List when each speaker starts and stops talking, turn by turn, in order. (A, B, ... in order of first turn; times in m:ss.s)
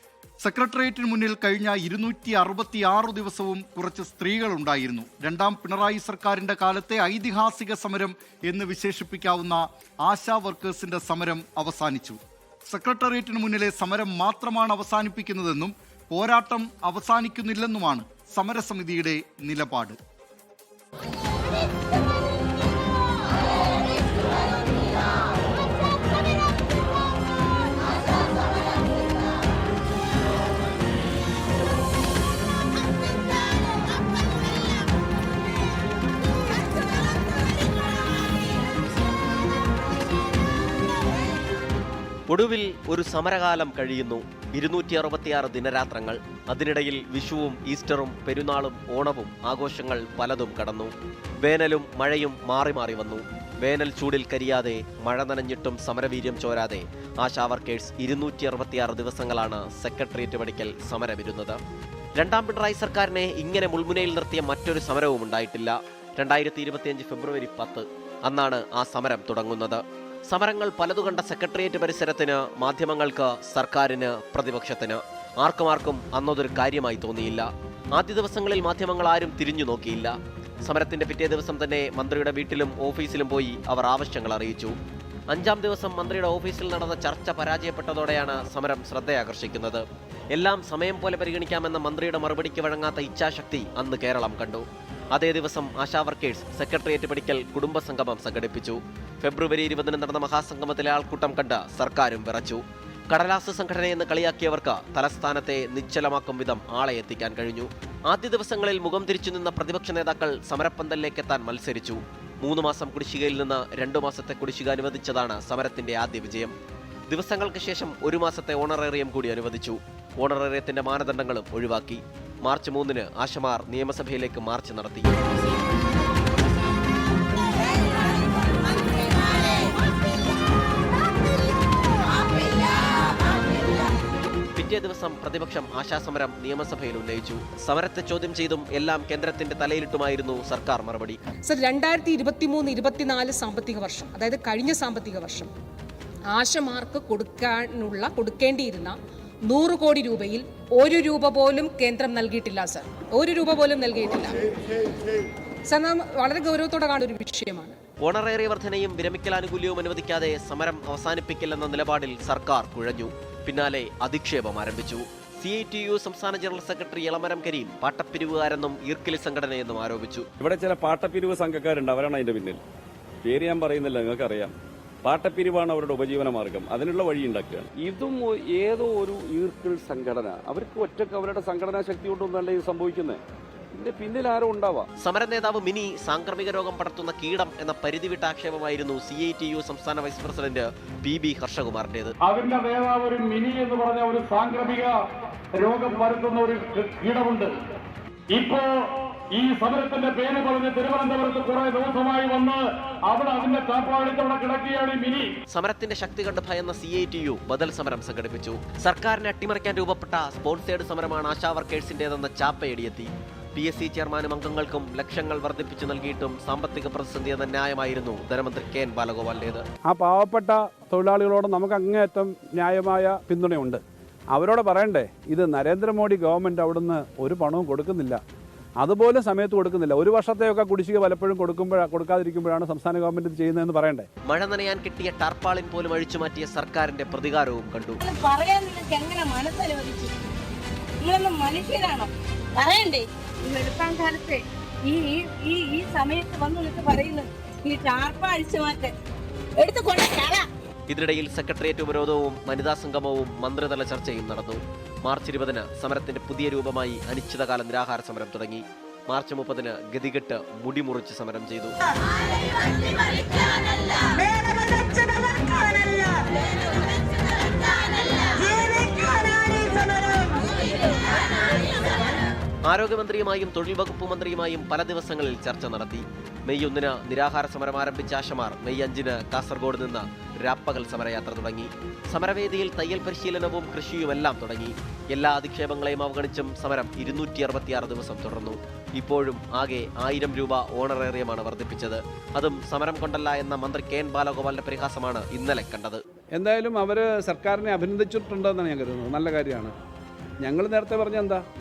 0:00.4-0:20.0 A
0:42.3-1:01.6 B
1:02.2-1:24.7 B
1:25.3-1:29.8 B
1:30.3-1:56.5 B
1:57.1-2:05.2 B
2:14.6-2:21.2 B
2:21.4-2:25.5 C
2:26.3-2:29.0 C
2:29.5-2:34.3 C
2:35.7-2:37.8 C
2:38.0-2:50.3 B
2:50.4-2:52.6 D
2:53.2-3:03.2 D
3:03.7-3:04.9 D
3:05.0-3:12.1 B
3:12.2-3:15.0 E
3:15.5-3:17.5 E
3:18.3-3:25.3 E
3:25.5-3:39.6 B
3:39.9-3:43.8 F
3:44.3-3:48.2 F
3:48.8-3:54.1 F
3:54.3-3:58.0 B
3:58.0-4:00.2 G
4:01.0-4:08.9 G
4:09.6-4:10.5 G
4:10.9-4:21.8 B
4:32.7-4:56.0 B
4:56.4-4:59.8 F
5:00.4-5:01.4 F